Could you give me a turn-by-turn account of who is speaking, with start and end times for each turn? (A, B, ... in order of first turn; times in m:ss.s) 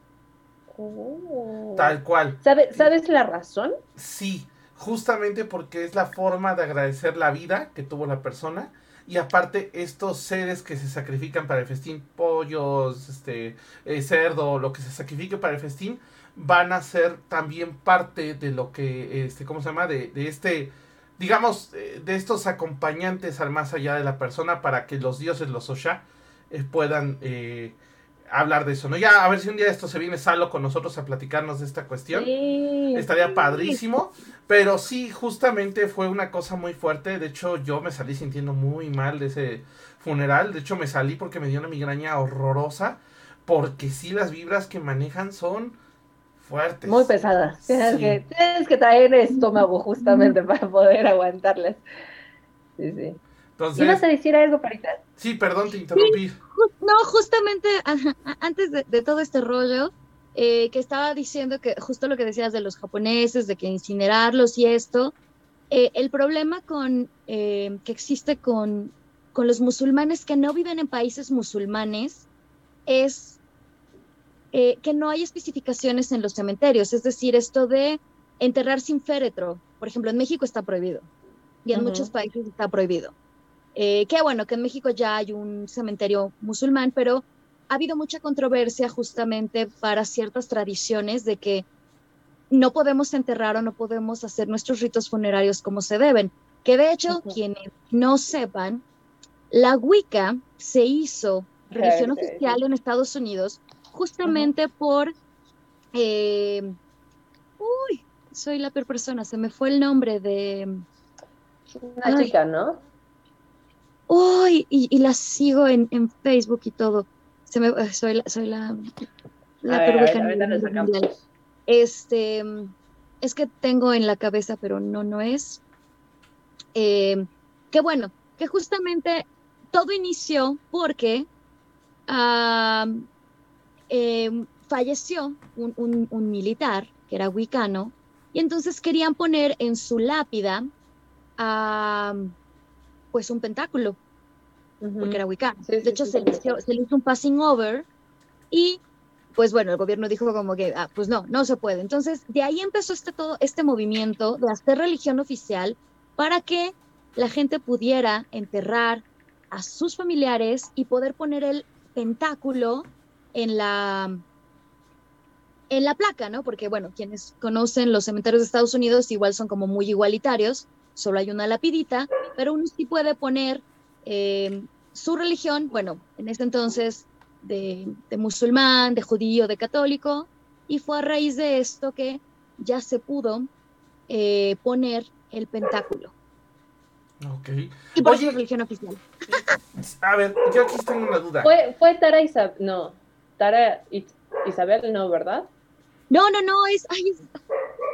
0:00.7-0:03.8 A
0:01.8-0:02.9 B
0:04.0-0:27.8 B
0:28.3-0:32.3 B
0:32.1-0:33.1 A
0:32.9-0:45.8 B
0:46.4-0:48.2 B
0:46.8-0:51.8 A
0:50.0-0:50.4 C
0:52.8-0:53.2 A
0:53.6-0:54.0 B
0:53.8-0:55.0 A
0:55.2-0:56.4 B
0:55.9-1:05.1 C
1:05.7-1:12.2 C
1:12.8-1:13.4 C
1:14.5-1:21.1 C
1:21.6-1:23.1 C
1:21.7-1:22.1 A
1:23.7-1:31.6 C
1:32.5-1:38.8 C
1:37.1-1:37.4 A
1:39.5-1:45.1 C
1:41.7-1:42.6 A
1:44.2-1:44.5 A
1:45.9-1:46.8 C
1:47.6-1:50.8 C
1:51.7-1:52.8 A
1:52.0-1:52.3 C
1:54.1-1:58.8 C
1:59.6-2:01.1 C
1:59.6-2:01.2 A
2:01.7-2:05.6 C
2:06.7-2:11.3 C
2:12.1-2:13.0 C
2:13.9-2:20.7 C
2:21.4-2:22.3 C
2:23.1-2:24.0 C
2:24.8-2:26.6 A
2:25.0-2:27.9 C
2:28.5-2:28.8 C
2:29.3-2:44.2 C
2:45.7-3:03.5 C
3:04.1-3:06.1 C
3:07.2-3:08.4 B
3:08.0-3:09.5 C
3:09.8-3:11.5 B
3:11.4-3:15.5 A
3:16.1-3:17.3 C